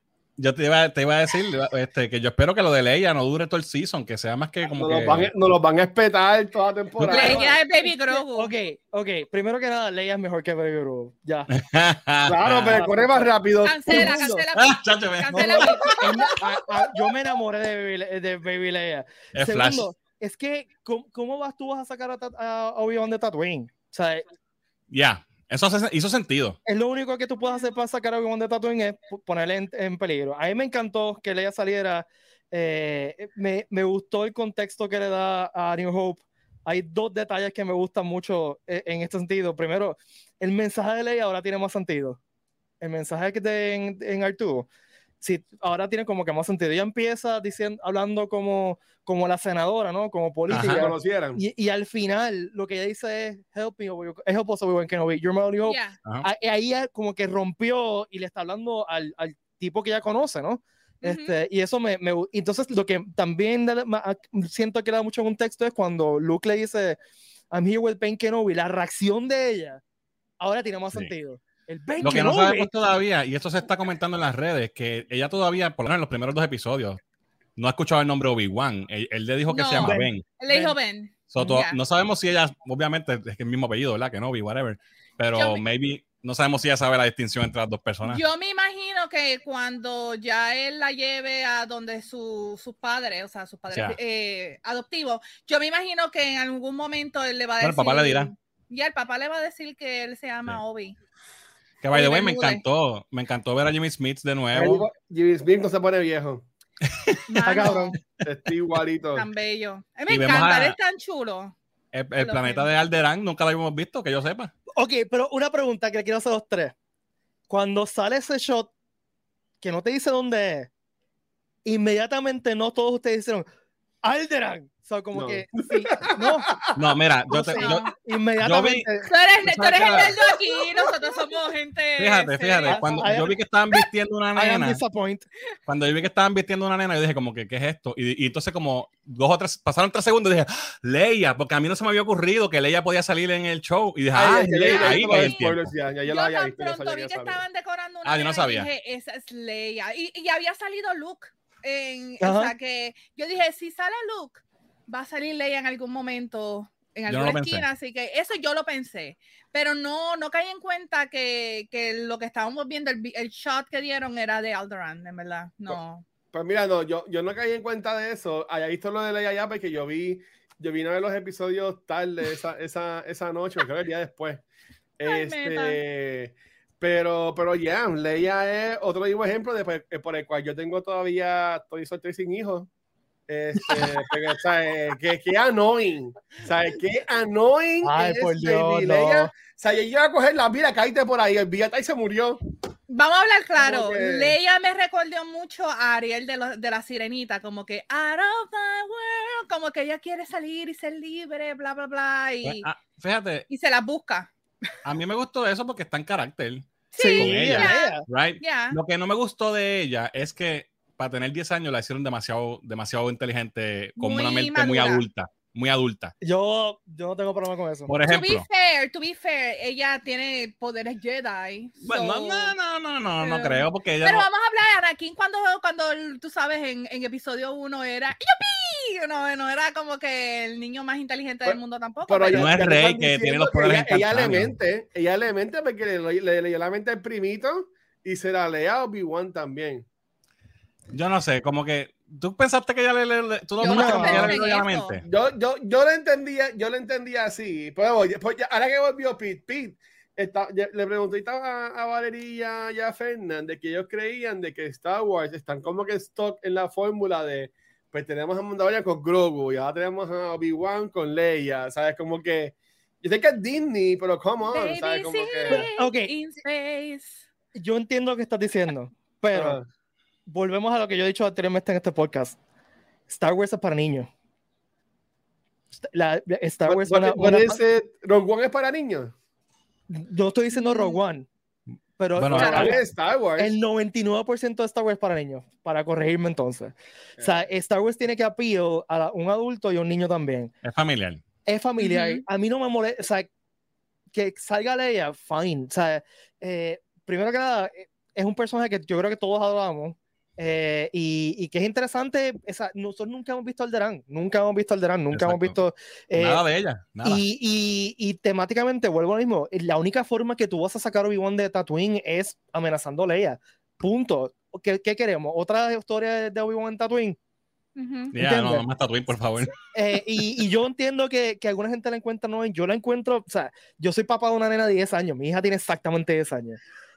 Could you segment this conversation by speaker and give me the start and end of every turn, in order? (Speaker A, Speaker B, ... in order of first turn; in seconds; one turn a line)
Speaker A: 0.4-5.3
Speaker B: 4.8-7.6
Speaker A: 7.0-7.4
Speaker C: 7.1-8.5
Speaker D: 7.7-11.5
Speaker A: 11.5-12.8
Speaker B: 12.3-14.2
Speaker D: 12.7-13.3
Speaker C: 13.6-16.4
Speaker D: 13.9-14.4
Speaker A: 14.6-15.8
Speaker D: 15.3-24.2
Speaker A: 19.3-19.9
Speaker A: 24.9-26.6
Speaker D: 26.6-42.2
Speaker D: 42.8-44.7
Speaker D: 45.2-67.0
Speaker A: 50.5-50.8
Speaker B: 50.5-51.4
Speaker C: 55.6-56.0
Speaker C: 61.0-61.4
Speaker D: 67.5-69.8
Speaker D: 70.4-72.7
Speaker A: 72.0-77.0
Speaker A: 77.6-80.2
Speaker C: 79.5-81.8
Speaker D: 79.8-80.8
Speaker A: 81.3-88.2
Speaker C: 85.3-85.6
Speaker C: 88.0-100.9
Speaker A: 93.7-94.0
Speaker A: 97.6-98.3
Speaker A: 101.8-104.9
Speaker C: 101.9-102.6
Speaker B: 104.5-106.4
Speaker A: 106.9-107.2
Speaker C: 107.3-108.0
Speaker D: 107.5-108.0
Speaker B: 108.2-109.3
Speaker C: 109.2-111.5
Speaker A: 110.1-110.8
Speaker A: 111.9-114.5
Speaker C: 112.2-112.7
Speaker D: 114.8-116.8
Speaker D: 117.5-118.7
Speaker D: 119.6-120.7
Speaker D: 121.7-123.5
Speaker D: 124.0-126.5
Speaker B: 125.1-126.7
Speaker A: 126.8-128.9
Speaker D: 127.3-129.1
Speaker C: 127.5-127.9
Speaker C: 129.0-133.2
Speaker A: 129.4-130.2
Speaker A: 132.0-134.8
Speaker D: 132.7-133.4
Speaker D: 134.3-135.3
Speaker A: 135.7-145.7
Speaker B: 144.1-147.4
Speaker C: 144.6-145.5
Speaker C: 146.1-166.1
Speaker A: 148.1-148.7
Speaker D: 152.2-152.5
Speaker A: 157.1-157.7
Speaker B: 166.3-174.4
Speaker B: 175.0-182.7
Speaker C: 175.1-175.8
Speaker B: 183.3-192.4
Speaker D: 183.7-184.0
Speaker D: 187.8-189.3
Speaker C: 192.9-202.7
Speaker B: 193.6-194.4
Speaker A: 202.4-203.5
Speaker C: 203.5-204.3
Speaker A: 204.8-216.1
Speaker C: 206.9-208.8
Speaker D: 207.0-208.1
Speaker C: 214.0-215.0
Speaker D: 216.2-217.9
Speaker A: 217.9-218.4
Speaker C: 218.0-222.6
Speaker A: 221.8-224.3
Speaker C: 223.2-232.5
Speaker B: 231.4-239.8
Speaker A: 232.3-234.6
Speaker A: 240.9-245.0
Speaker D: 243.6-244.3
Speaker C: 243.6-245.0
Speaker B: 245.0-265.6
Speaker C: 264.5-267.3
Speaker D: 265.5-266.1
Speaker D: 267.5-269.6
Speaker B: 269.3-269.7
Speaker D: 270.3-272.4
Speaker D: 273.1-274.1
Speaker D: 275.8-277.6
Speaker B: 276.7-279.1
Speaker D: 279.9-281.3
Speaker C: 280.5-281.0
Speaker D: 282.0-282.8
Speaker A: 282.2-282.7
Speaker C: 282.4-282.7
Speaker B: 282.4-283.6
Speaker D: 283.4-290.5
Speaker A: 290.6-291.2
Speaker D: 291.4-293.3
Speaker C: 291.8-292.2
Speaker D: 294.1-306.4
Speaker A: 305.1-305.6
Speaker A: 306.1-307.2
Speaker D: 307.0-317.2
Speaker C: 317.8-318.1
Speaker A: 318.1-319.5
Speaker D: 318.2-318.6
Speaker D: 319.6-326.6